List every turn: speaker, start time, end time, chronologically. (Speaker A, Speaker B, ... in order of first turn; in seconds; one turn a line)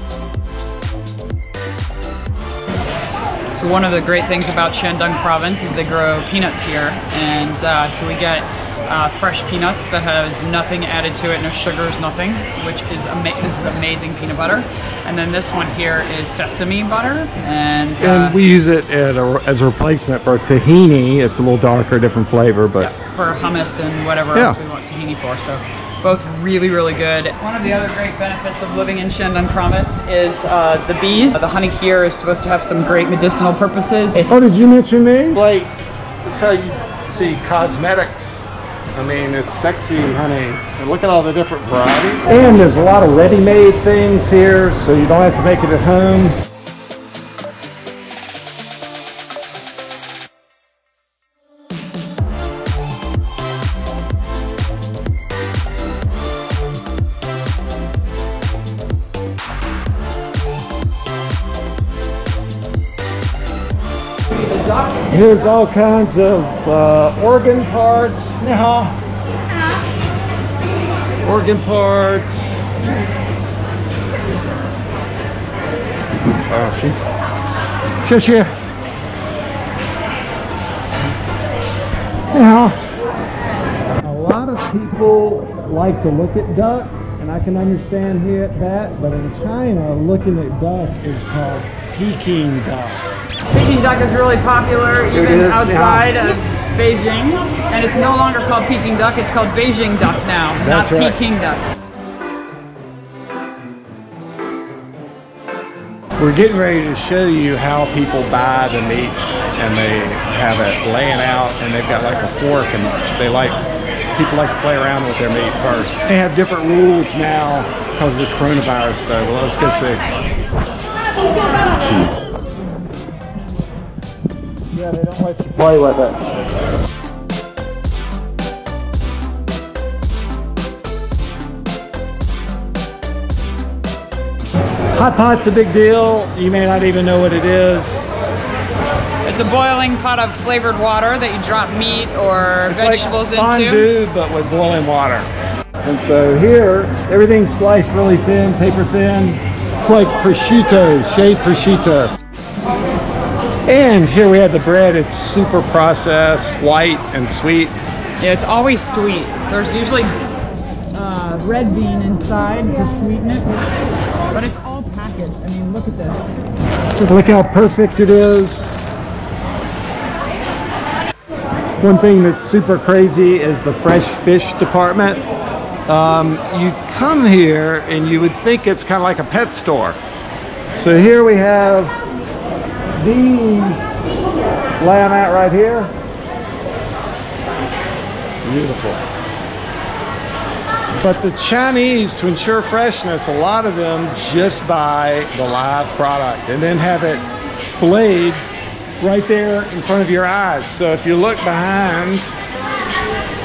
Speaker A: 3.5-18.4
Speaker B: 18.0-22.9
Speaker A: 22.8-34.7
Speaker B: 34.3-35.7
Speaker B: 36.2-46.4
Speaker B: 65.1-69.0
Speaker B: 71.2-72.8
Speaker B: 76.3-77.0
Speaker B: 78.0-78.5
Speaker B: 82.3-82.9
Speaker B: 84.0-93.1
Speaker A: 93.5-101.7
Speaker B: 95.1-96.2
Speaker B: 100.6-101.2
Speaker B: 106.2-113.6
Speaker B: 114.2-120.0
Speaker B: 124.7-126.2
Speaker B: 134.9-138.1
Speaker A: 139.2-143.9
Speaker B: 142.7-145.3
Speaker B: 145.8-152.1
Speaker B: 153.7-157.8
Speaker A: 158.2-160.1
Speaker A: 160.9-163.6
Speaker A: 164.3-166.3
Speaker A: 167.0-167.3
Speaker B: 167.1-168.8
Speaker B: 171.8-175.2
Speaker B: 175.9-180.0
Speaker B: 180.8-182.0
Speaker B: 183.0-184.2
Speaker B: 184.8-185.9
Speaker B: 188.4-189.0
Speaker B: 191.0-198.4
Speaker B: 199.0-202.4